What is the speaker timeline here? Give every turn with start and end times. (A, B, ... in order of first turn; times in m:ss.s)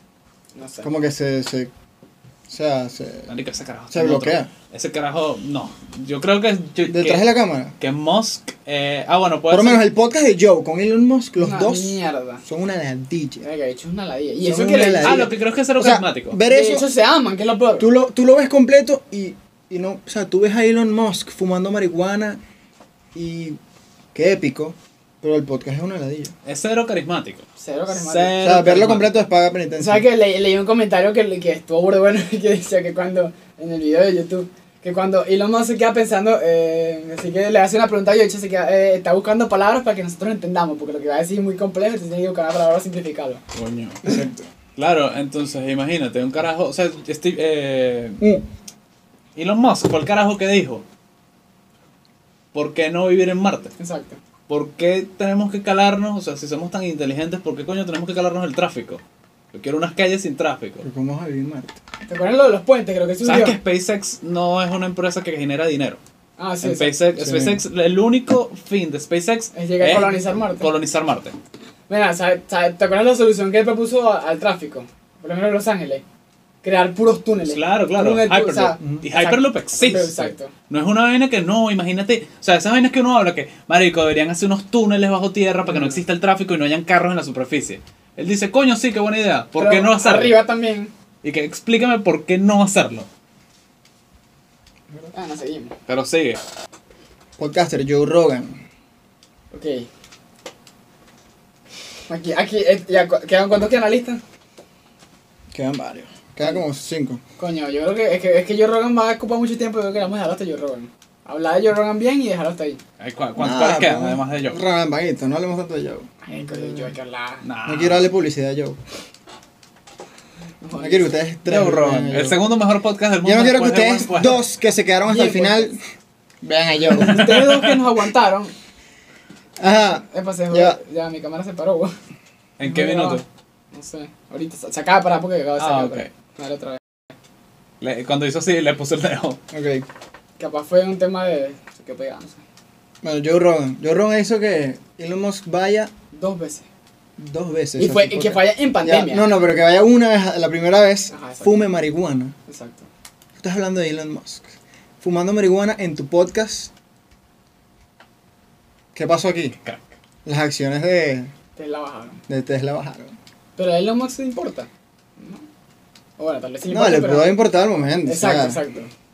0:00.6-0:00.9 A
0:00.8-0:01.7 B
0:02.5-0:03.3 B
0:03.3-0:07.2 C
0:03.9-0:04.5 B
0:06.9-0:07.8 B
0:07.8-0:09.8 C
0:09.5-0:13.4 B
0:11.4-0:12.4 A
0:13.4-0:15.3 A
0:14.4-0:16.9 B
0:15.0-0:16.4 C
0:16.5-0:17.9 A
0:17.8-0:22.4 B
0:23.1-0:23.6 B
0:24.1-0:26.3 B
0:26.4-0:29.2 C
0:27.6-0:28.6 A
0:28.4-0:30.0 B
0:29.8-0:43.4 A
0:43.5-0:44.2 C
0:44.0-0:44.4 B
0:44.8-0:48.2 C
0:49.4-0:50.8 C
0:52.5-0:53.7 C
0:53.8-0:54.2 A
0:54.5-0:59.0 C
0:59.5-1:00.8 C
1:00.8-1:01.8 B
1:02.1-1:03.6 A
1:03.2-1:06.0 C
1:06.4-1:06.9 A
1:06.6-1:11.4 C
1:07.2-1:07.6 B
1:09.5-1:10.7 A
1:11.9-1:16.0 A
1:16.6-1:20.5 A
1:17.4-1:30.4 C
1:29.6-1:30.9 A
1:31.2-1:33.1 C
1:35.1-1:35.7 A
1:35.9-1:36.4 C
1:37.4-1:38.6 B
1:39.5-1:39.9 A
1:42.1-1:44.2 A
1:45.5-1:47.2 B
1:47.4-1:52.8 A
1:53.0-1:54.6 C
1:53.4-1:56.9 B
1:56.2-1:57.4 A
1:57.4-1:58.1 C
1:57.7-1:58.8 B
2:00.6-2:01.2 A
2:00.8-2:02.4 B
2:01.5-2:04.4 C
2:03.2-2:05.8 B
2:05.1-2:05.7 A
2:06.4-2:07.3 B
2:06.9-2:08.5 A
2:07.0-2:07.8 C
2:09.6-2:10.8 B
2:10.1-2:11.9 A
2:12.6-2:13.2 C
2:12.6-2:16.8 A
2:15.6-2:16.1 C
2:17.8-2:19.4 C
2:19.5-2:19.9 B
2:20.4-2:22.4 A
2:23.0-2:25.9 B
2:26.1-2:26.7 A
2:27.2-2:32.4 B
2:27.8-2:29.3 A
2:31.1-2:31.7 A
2:32.5-2:32.9 A
2:33.4-2:36.7 B
2:39.0-2:39.6 B
2:39.6-2:40.0 C
2:40.2-2:41.3 B
2:41.6-2:42.2 A
2:42.3-2:43.2 B
2:43.6-2:45.4 A
2:46.2-2:47.4 A
2:46.7-2:48.6 B
2:48.1-2:48.9 A